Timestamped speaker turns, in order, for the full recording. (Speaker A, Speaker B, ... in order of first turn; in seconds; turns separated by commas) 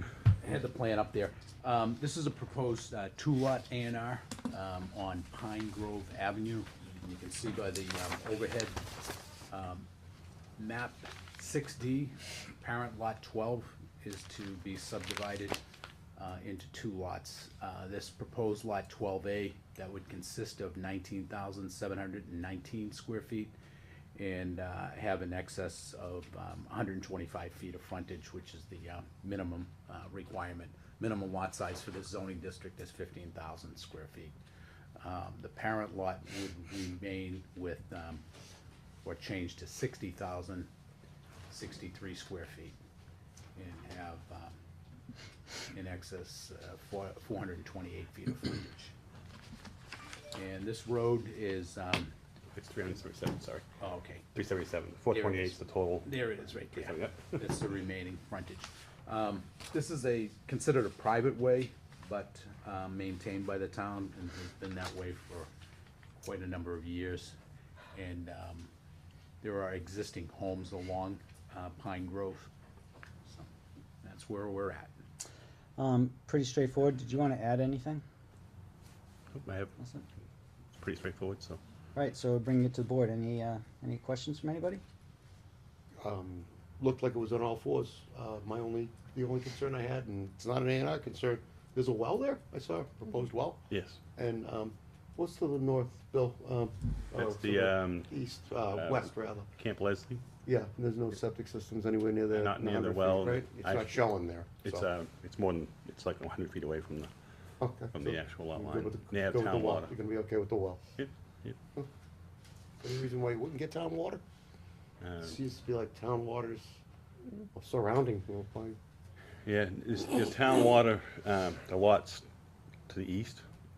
Speaker A: 0.4-8.8, Speaker A: 9.5-9.9, Speaker A: 10.6-15.6, Speaker A: 16.2-23.5, Speaker A: 24.1-34.4, Speaker A: 35.0-38.2, Speaker A: 39.0-40.7, Speaker A: 41.5-42.8, Speaker A: 43.5-44.5, Speaker A: 45.7-48.9, Speaker A: 50.3-52.1, Speaker B: 52.5-53.7, Speaker A: 53.8-54.2, Speaker B: 54.3-56.2, Speaker A: 55.1-65.5, Speaker B: 56.7-57.4, Speaker A: 66.2-67.3, Speaker A: 67.9-68.7, Speaker A: 69.4-72.5, Speaker A: 74.0-75.0, Speaker C: 75.8-78.0, Speaker B: 79.3-79.7, Speaker C: 79.8-80.0, Speaker B: 80.8-81.6, Speaker C: 81.9-84.8, Speaker D: 86.0-93.6, Speaker B: 93.7-94.0, Speaker D: 94.2-99.5, Speaker B: 97.2-98.1, Speaker B: 98.7-100.2, Speaker D: 100.4-104.8, Speaker B: 102.3-104.0, Speaker B: 104.6-107.1, Speaker D: 107.6-110.8, Speaker B: 107.9-109.9, Speaker B: 111.0-111.6, Speaker D: 112.8-114.2, Speaker B: 115.0-115.4, Speaker D: 115.2-118.8, Speaker B: 119.4-122.2, Speaker B: 122.9-123.4